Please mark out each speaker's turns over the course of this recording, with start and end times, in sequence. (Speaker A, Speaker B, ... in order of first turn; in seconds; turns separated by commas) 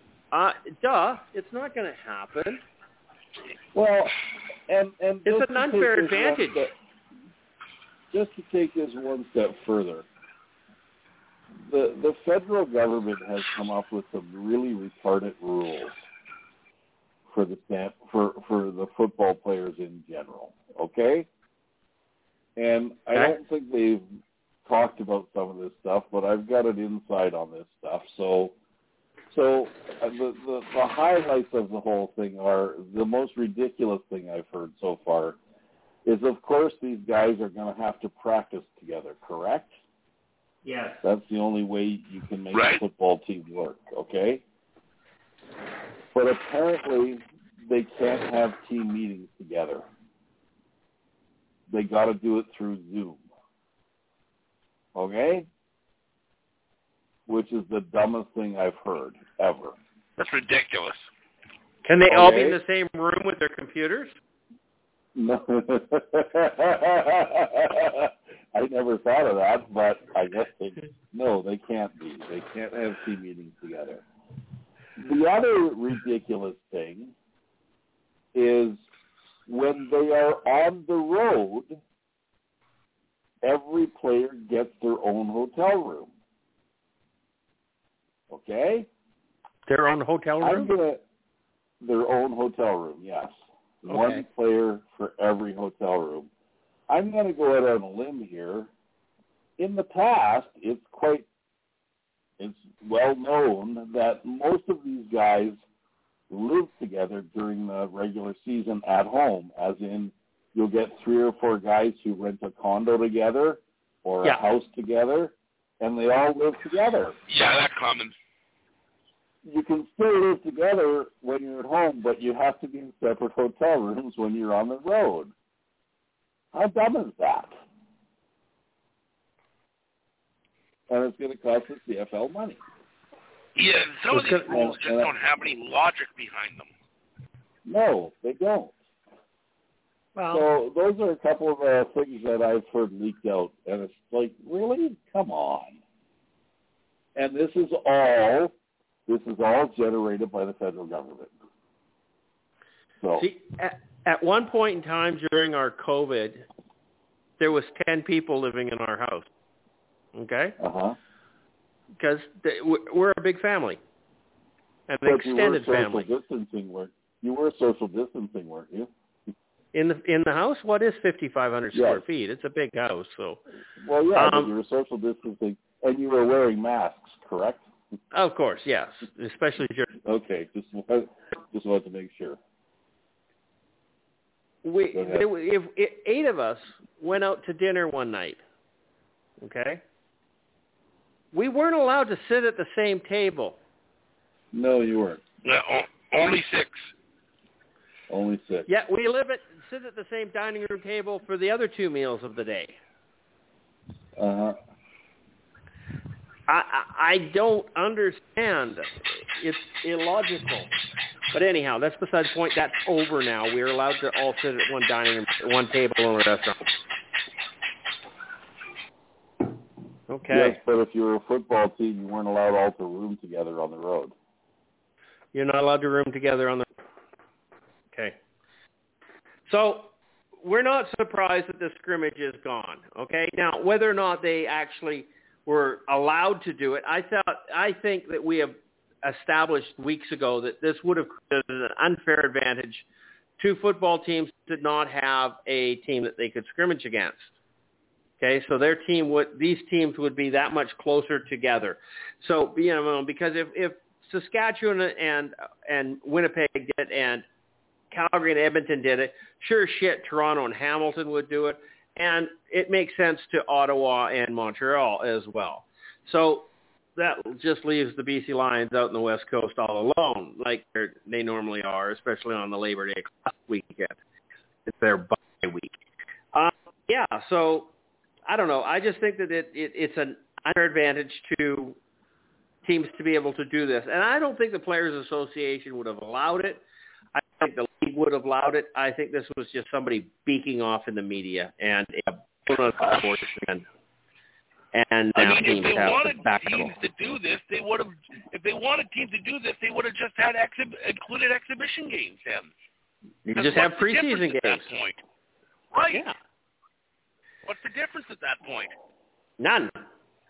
Speaker A: 0.3-2.6, Speaker B: 3.7-4.2, Speaker B: 4.7-6.7, Speaker A: 5.2-6.6, Speaker B: 8.1-10.1, Speaker B: 11.7-16.0, Speaker B: 17.3-21.3, Speaker B: 22.6-24.0, Speaker B: 24.6-28.5, Speaker B: 29.3-35.4, Speaker B: 36.0-39.8, Speaker A: 40.6-41.0, Speaker B: 41.0-44.4, Speaker C: 42.5-42.8, Speaker B: 46.1-49.8, Speaker B: 51.7-53.2, Speaker B: 54.9-55.5, Speaker B: 57.3-59.8, Speaker C: 60.2-61.0, Speaker A: 61.9-64.1, Speaker B: 62.1-62.6, Speaker B: 65.1-74.0, Speaker B: 75.0-77.1, Speaker B: 78.3-78.8, Speaker B: 79.5-81.8, Speaker B: 83.4-86.1, Speaker B: 88.3-88.9, Speaker A: 89.7-90.7, Speaker B: 90.4-91.0, Speaker B: 91.8-96.3, Speaker A: 93.9-94.2, Speaker B: 96.9-98.7, Speaker B: 99.6-101.2, Speaker B: 102.4-105.6, Speaker B: 106.3-117.2, Speaker C: 117.3-118.1, Speaker B: 119.4-125.3, Speaker B: 126.5-127.5, Speaker B: 130.9-132.6, Speaker C: 133.6-136.7, Speaker A: 134.1-134.5, Speaker B: 134.5-135.1, Speaker B: 137.6-138.8, Speaker A: 140.2-140.4, Speaker B: 140.3-145.8, Speaker B: 147.2-148.5, Speaker B: 149.1-151.3, Speaker B: 153.0-153.3, Speaker A: 153.2-156.4, Speaker A: 157.4-159.3, Speaker A: 160.1-160.6, Speaker B: 160.6-161.0, Speaker A: 162.0-163.8, Speaker A: 164.9-166.1, Speaker B: 165.0-168.9, Speaker A: 169.7-173.4, Speaker B: 171.7-172.0, Speaker B: 173.8-177.6, Speaker A: 174.1-174.5, Speaker A: 178.1-179.9, Speaker B: 180.0-182.4, Speaker A: 184.6-188.4, Speaker B: 184.9-185.2, Speaker A: 189.4-189.8, Speaker A: 191.3-193.6, Speaker B: 194.5-195.2, Speaker C: 195.4-196.9, Speaker B: 198.1-198.7, Speaker A: 198.7-202.8, Speaker B: 204.2-204.6, Speaker A: 206.5-210.7, Speaker A: 211.3-216.6, Speaker A: 220.1-220.6, Speaker B: 220.3-224.1, Speaker A: 225.3-226.7, Speaker A: 229.5-242.8, Speaker A: 243.4-247.3, Speaker A: 248.2-257.2, Speaker A: 257.9-274.0, Speaker A: 274.7-275.7, Speaker A: 276.3-277.7, Speaker A: 278.3-281.8, Speaker A: 282.6-286.6, Speaker A: 287.1-293.6, Speaker A: 294.7-296.8, Speaker C: 295.1-302.5, Speaker A: 303.2-304.7, Speaker C: 303.4-305.0, Speaker C: 305.7-306.1, Speaker C: 307.4-308.7, Speaker A: 309.4-309.8